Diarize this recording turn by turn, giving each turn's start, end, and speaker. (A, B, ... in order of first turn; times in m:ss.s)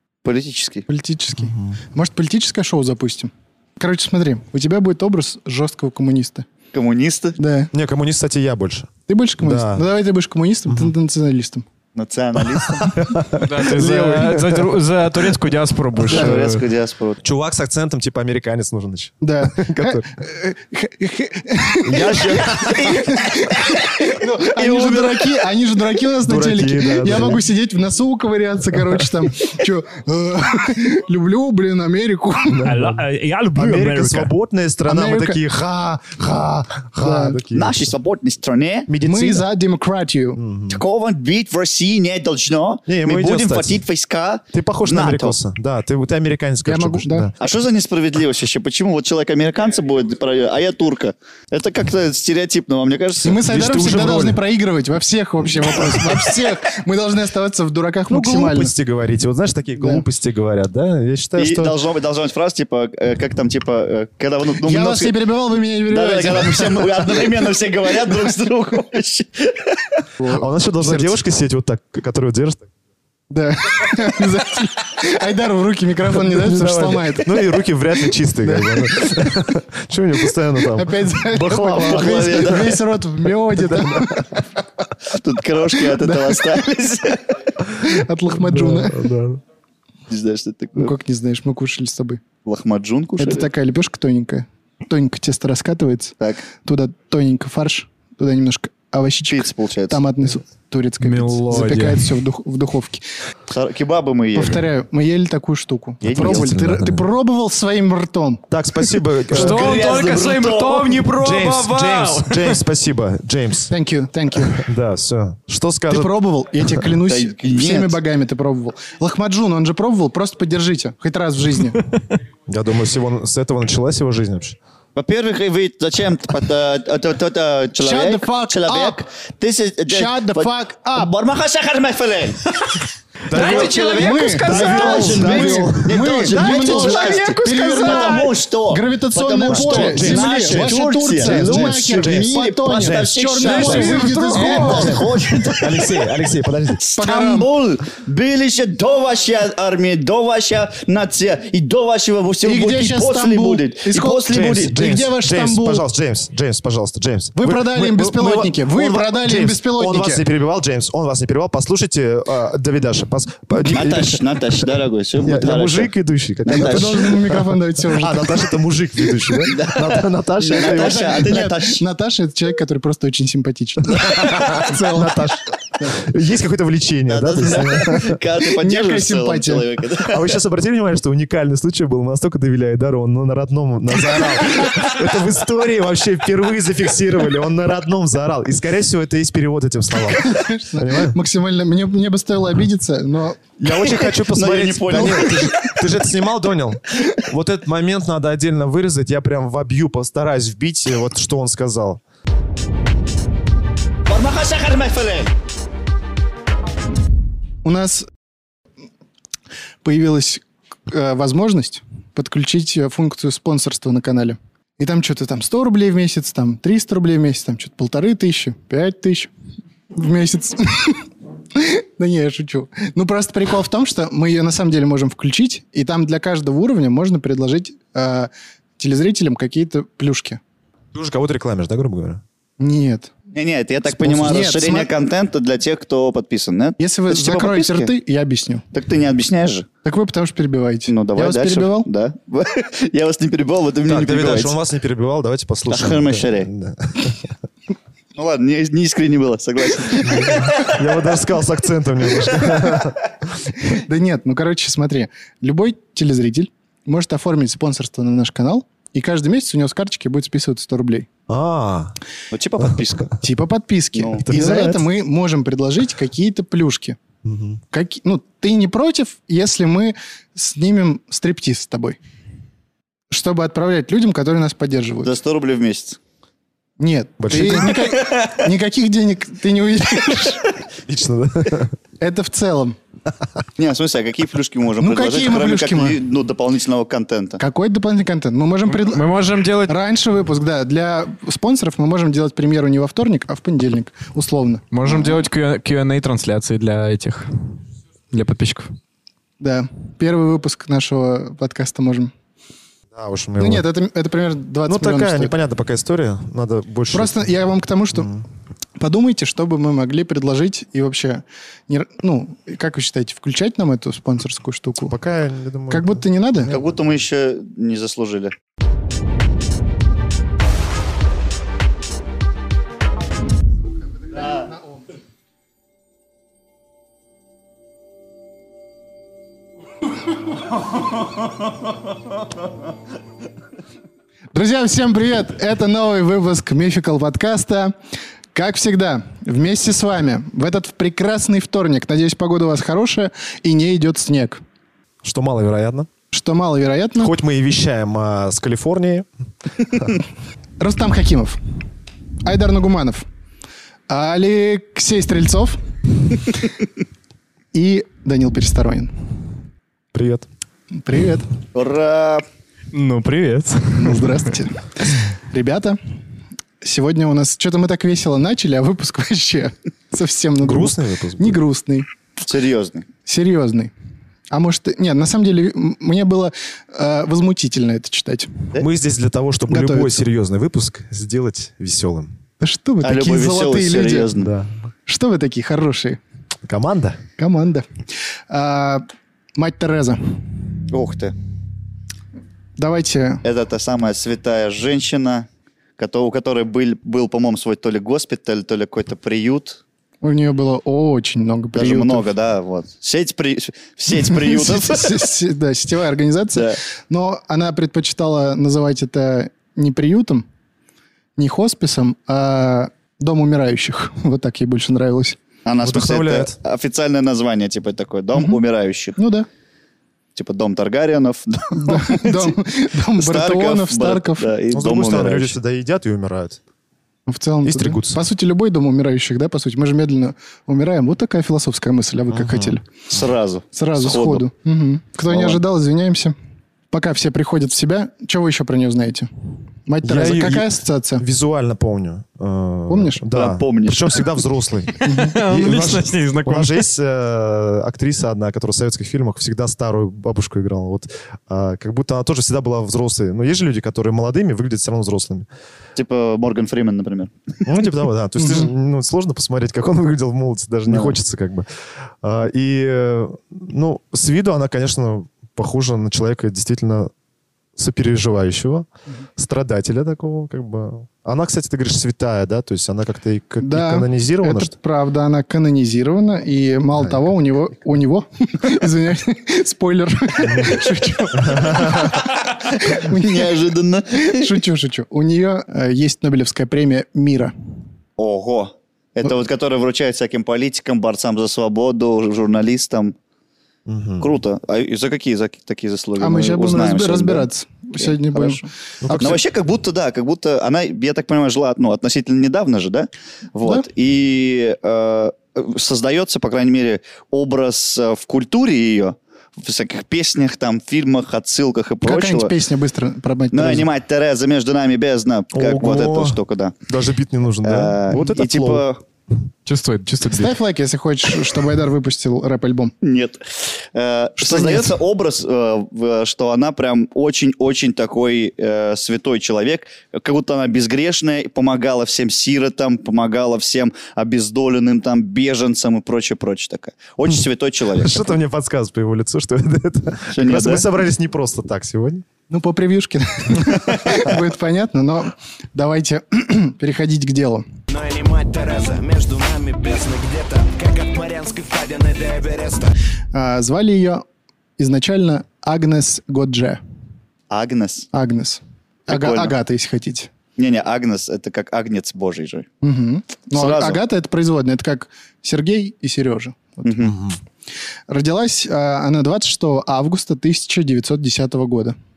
0:00.2-0:00.8 A
0:00.9-0:06.5 B
0:01.4-0:01.8 C
0:06.7-0:07.4 A
0:07.4-0:07.7 B
0:07.7-0:09.9 C
0:09.1-0:11.6 B
0:12.0-0:12.9 A
0:12.4-0:14.7 C
0:13.4-0:16.6 D
0:16.0-0:17.2 A
0:16.1-0:16.4 B
0:17.2-0:20.1 C
0:19.2-0:32.7 B
0:21.8-0:23.0 C
0:22.1-0:23.1 A
0:23.8-0:25.3 A
0:26.2-0:27.4 C
0:28.7-0:29.1 C
0:32.4-0:37.9 C
0:32.6-0:34.3 D
0:34.8-0:35.4 B
0:37.0-0:37.4 B
0:37.5-0:38.9 A
0:38.9-0:39.5 C
0:39.0-0:40.4 B
0:40.4-0:40.8 C
0:40.7-0:45.4 A
0:42.9-0:43.8 C
0:44.5-0:47.4 C
0:46.6-0:47.3 B
0:47.4-0:53.4 A
0:53.2-0:58.7 B
0:53.4-0:54.4 C
0:55.6-0:56.2 C
0:58.1-1:01.8 C
0:59.8-1:00.0 B
1:01.4-1:05.2 A
1:04.6-1:07.4 B
1:05.9-1:10.0 A
1:10.2-1:11.2 B
1:10.3-1:12.7 C
1:13.3-1:17.6 B
1:16.1-1:22.8 C
1:18.4-1:19.1 B
1:20.8-1:24.4 B
1:21.7-1:22.8 A
1:23.4-1:24.4 C
1:25.1-1:27.4 A
1:25.7-1:26.4 B
1:27.8-1:29.1 B
1:27.9-1:29.4 C
1:30.1-1:30.9 A
1:30.8-1:32.2 B
1:32.4-1:33.5 A
1:33.2-1:43.1 B
1:36.2-1:36.4 A
1:39.3-1:40.0 A
1:41.0-1:42.1 D
1:43.5-1:44.6 A
1:44.4-1:48.4 B
1:46.0-1:46.5 A
1:46.0-1:47.1 C
1:48.5-1:49.8 C
1:49.3-1:51.1 A
1:49.3-1:52.6 D
1:51.2-1:53.7 C
1:53.7-1:54.7 B
1:54.5-1:56.9 C
1:55.9-2:01.8 B
1:57.1-1:58.0 A
2:02.5-2:04.6 C
2:05.0-2:12.5 A
2:07.8-2:09.0 B
2:09.9-2:11.1 B
2:13.3-2:16.2 C
2:13.3-2:15.7 D
2:13.3-2:25.9 A
2:13.8-2:25.1 B
2:16.3-2:18.3 D
2:19.5-2:25.0 C
2:23.4-2:25.5 D
2:25.6-2:26.8 C
2:26.8-2:34.9 A
2:27.0-2:27.5 B
2:32.4-2:35.8 B
2:34.3-2:51.4 C
2:37.4-2:40.3 B
2:43.6-2:45.9 A
2:46.5-2:48.6 B
2:46.5-2:47.2 A
2:49.2-2:49.6 B
2:49.5-2:51.8 A
2:50.5-2:55.9 B
2:54.0-2:58.2 C
2:57.1-3:00.3 A
2:58.4-2:59.7 B
3:00.1-3:11.2 C
3:10.2-3:13.4 B
3:13.6-3:22.0 C
3:13.9-3:15.7 A
3:24.1-3:25.3 A
3:27.6-3:28.1 B
3:29.8-3:39.3 B
3:39.9-3:50.4 B
3:50.9-3:52.2 C
3:52.6-3:53.1 B
3:53.3-3:57.9 A
3:53.9-3:54.9 B
3:56.8-3:58.6 B
3:58.7-3:59.7 A
3:59.8-4:01.9 B
4:00.9-4:04.6 A
4:03.9-4:07.3 C
4:05.7-4:06.5 A
4:08.2-4:10.8 A
4:10.0-4:13.0 C
4:13.6-4:21.1 B
4:21.3-4:22.0 C
4:22.3-4:23.2 A
4:23.2-4:27.0 B
4:24.0-4:24.3 A
4:24.2-4:24.9 C
4:27.2-4:27.6 C
4:27.7-4:32.0 B
4:33.1-4:35.1 B
4:35.0-4:36.0 A
4:36.8-4:40.4 B
4:37.2-4:37.9 C
4:40.8-4:41.8 C
4:42.0-4:42.8 B
4:43.6-4:47.4 A
4:44.8-4:46.0 B
4:47.4-4:49.1 B
4:48.7-4:49.7 D
4:49.7-4:54.6 B
4:54.7-4:57.3 D
4:58.1-4:58.7 D
4:59.4-5:02.1 B
5:02.9-5:03.6 C
5:03.4-5:05.3 B
5:04.7-5:07.2 C
5:06.9-5:08.2 B
5:08.0-5:08.2 C
5:08.8-5:15.0 B
5:14.8-5:16.0 C
5:15.7-5:16.6 B
5:16.4-5:18.3 A
5:24.2-5:24.6 B
5:34.3-5:37.7 B
5:38.3-5:44.4 B
5:45.0-5:45.9 C
5:46.1-5:47.1 B
5:47.0-5:49.1 C
5:50.6-5:51.4 B
5:52.2-5:53.1 B
5:53.9-5:55.6 B
5:57.5-5:58.9 B
5:59.9-6:00.3 C
6:00.8-6:01.3 B
6:01.6-6:02.2 A
6:02.7-6:04.2 D
6:03.8-6:05.8 B
6:06.6-6:11.9 B
6:10.4-6:11.4 C
6:12.2-6:12.9 A
6:13.1-6:13.7 B
6:14.3-6:18.4 B
6:18.6-6:22.1 C
6:19.5-6:20.0 B
6:22.4-6:24.1 B
6:22.8-6:24.3 A
6:24.2-6:24.5 C
6:24.9-6:26.0 B
6:26.4-6:27.0 C
6:27.2-6:27.6 B
6:28.3-6:28.8 B
6:29.4-6:30.3 B
6:30.7-6:31.2 A
6:32.6-6:33.2 B
6:33.2-6:35.3 A
6:35.8-6:39.6 A
6:40.0-6:42.1 B
6:41.6-6:45.1 A
6:43.9-6:50.2 B
6:46.3-6:46.6 A
6:51.2-6:55.2 B
6:55.4-6:59.0 A
6:55.6-6:56.4 C
6:59.0-6:59.3 B
7:00.2-7:02.4 A
7:01.5-7:04.3 B
7:03.0-7:05.4 A
7:04.5-7:06.4 C
7:07.1-7:12.6 B
7:07.4-7:08.0 C
7:12.1-7:12.6 C
7:12.9-7:14.2 A
7:13.5-7:16.1 B
7:15.1-7:15.4 A
7:16.7-7:19.1 B
7:19.7-7:21.0 B
7:19.8-7:35.3 C
7:22.7-7:23.0 B
7:23.1-7:24.0 A
7:24.8-7:25.2 B
7:24.8-7:26.6 D
7:35.8-7:37.1 A
7:37.4-7:41.5 C
7:40.7-7:41.0 A
7:42.0-7:46.9 C
7:47.6-7:54.5 C
7:53.4-8:03.4 B
8:00.2-8:00.6 C
8:01.1-8:02.0 C
8:02.2-8:04.4 A
8:03.9-8:07.3 B
8:08.0-8:13.0 A
8:13.7-8:14.1 C
8:14.0-8:17.3 A
8:16.0-8:19.2 B
8:17.8-8:18.4 A
8:18.8-8:19.2 C
8:19.0-8:32.3 A
8:31.8-8:33.7 B
8:33.3-8:36.5 A
8:35.3-8:38.6 C
8:37.4-8:38.8 A
8:39.5-8:40.4 D
8:40.1-8:42.7 B
8:42.8-8:43.2 A
8:43.7-8:58.1 A
8:44.2-8:44.8 B
8:57.8-9:02.0 C
9:00.1-9:00.7 A
9:02.3-9:07.4 B
9:07.7-9:12.7 E
9:13.1-9:14.0 B
9:14.6-9:16.6 B
9:17.3-9:17.9 A
9:17.9-9:20.1 B
9:18.9-9:19.3 A
9:20.4-9:22.5 A
9:22.6-9:26.9 B
9:23.4-9:23.8 A
9:26.6-9:27.0 A
9:26.9-9:27.2 C
9:27.9-9:31.8 B